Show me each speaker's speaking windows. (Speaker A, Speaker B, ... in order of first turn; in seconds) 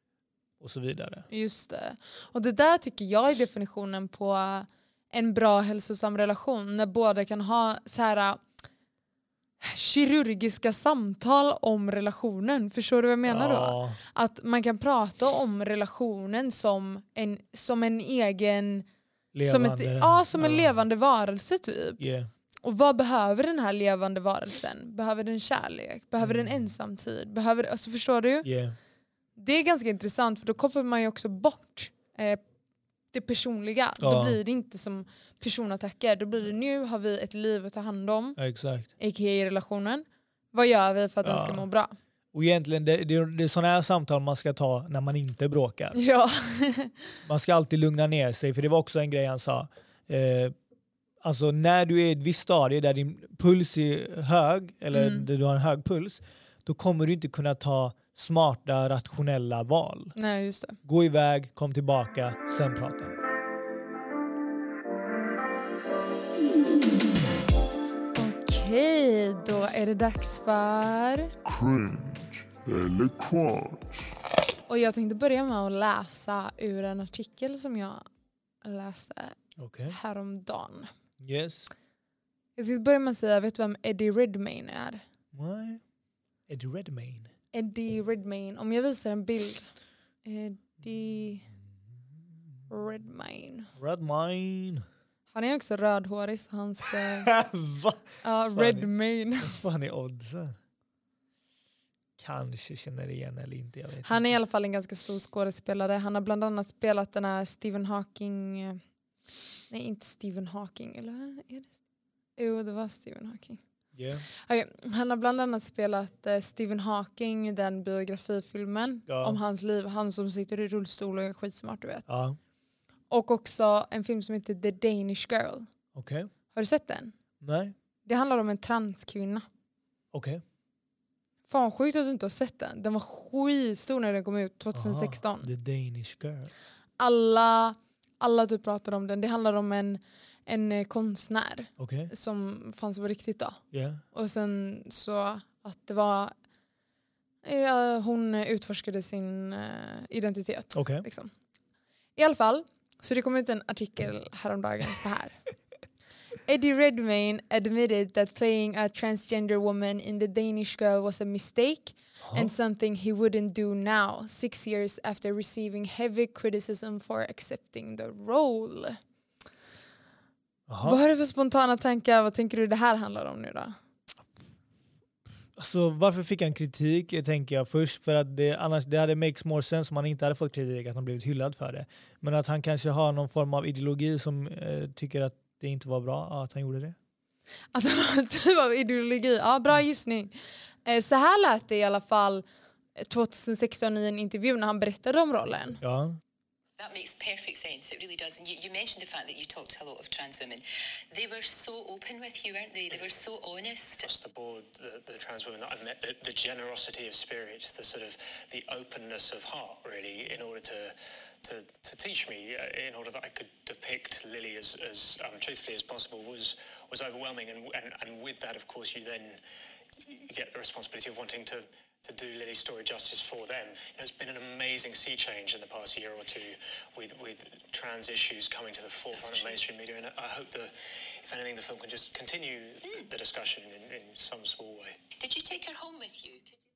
Speaker A: 0.6-1.3, 13.3-14.0, 19.3-20.8, 22.0-22.3, 26.2-26.7, 28.4-28.8, 34.0-34.4, 38.4-38.9, 41.2-41.6, 42.3-46.0, 47.2-50.5, 51.2-60.1, 60.8-63.2, 79.6-80.0, 81.2-81.7, 85.3-85.8, 86.5-87.3, 93.8-94.8, 97.0-98.9, 99.4-100.6, 102.2-104.3, 114.0-114.2, 119.1-119.4, 122.1-122.4, 126.0-126.3, 127.4-127.8, 130.1-130.4, 134.7-136.5, 141.8-142.1, 143.7-144.0, 150.7-151.1, 162.2-162.5, 170.7-171.0, 175.6-187.0, 195.8-196.2
Speaker B: 1.3-8.4, 9.6-18.9, 19.4-22.0, 22.6-28.5, 29.4-32.4, 33.1-38.4, 39.0-41.9, 46.0-47.0, 54.9-55.3, 60.2-60.8, 68.1-71.3, 74.7-78.0, 78.6-79.4, 79.9-80.9, 82.6-85.0, 87.5-89.7, 90.2-91.4, 92.7-93.7, 95.3-97.3, 98.2-99.6, 104.0-108.8, 109.7-111.7, 112.4-113.6, 114.5-122.1, 123.1-125.7, 126.5-127.1, 128.1-129.5, 131.5-135.5, 137.0-143.6, 144.1-146.3, 147.4-151.3, 152.2-155.4, 156.4-169.0, 170.8-173.8, 187.7-190.3, 190.9-192.4, 193.0-195.8
Speaker C: 71.5-74.1
Speaker D: 196.8-204.1, 229.1-229.6, 235.2-236.6
Speaker E: 202.9-203.2, 204.0-219.4, 220.1-230.7, 231.2-235.0